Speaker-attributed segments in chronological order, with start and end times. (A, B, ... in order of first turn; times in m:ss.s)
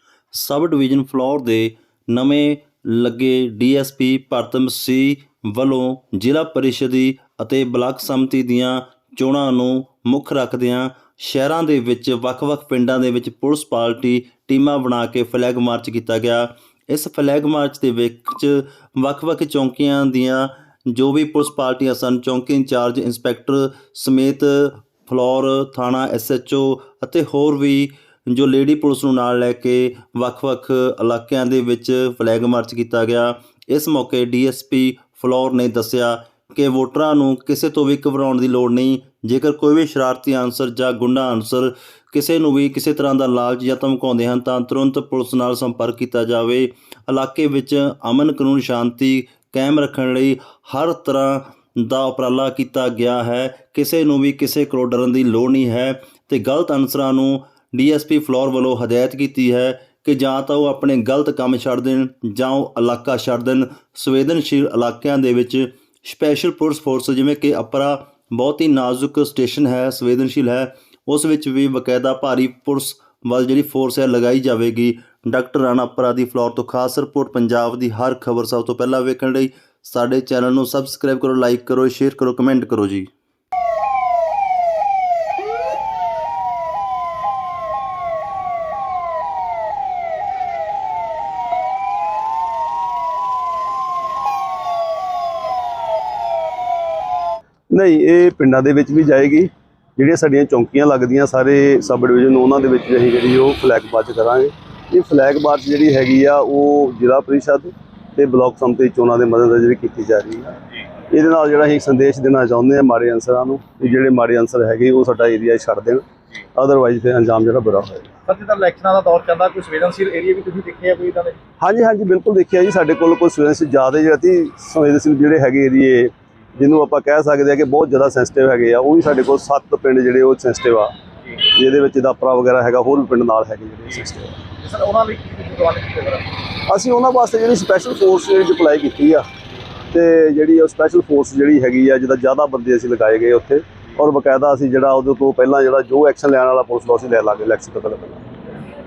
0:00.3-1:23.1 A
1:37.7-1:50.6 B
1:51.1-1:56.0 B
1:56.6-1:58.1 B
1:58.3-2:01.4 C
2:01.6-2:14.4 B
2:14.6-2:16.3 C
2:16.7-2:19.2 B
2:19.9-2:28.3 B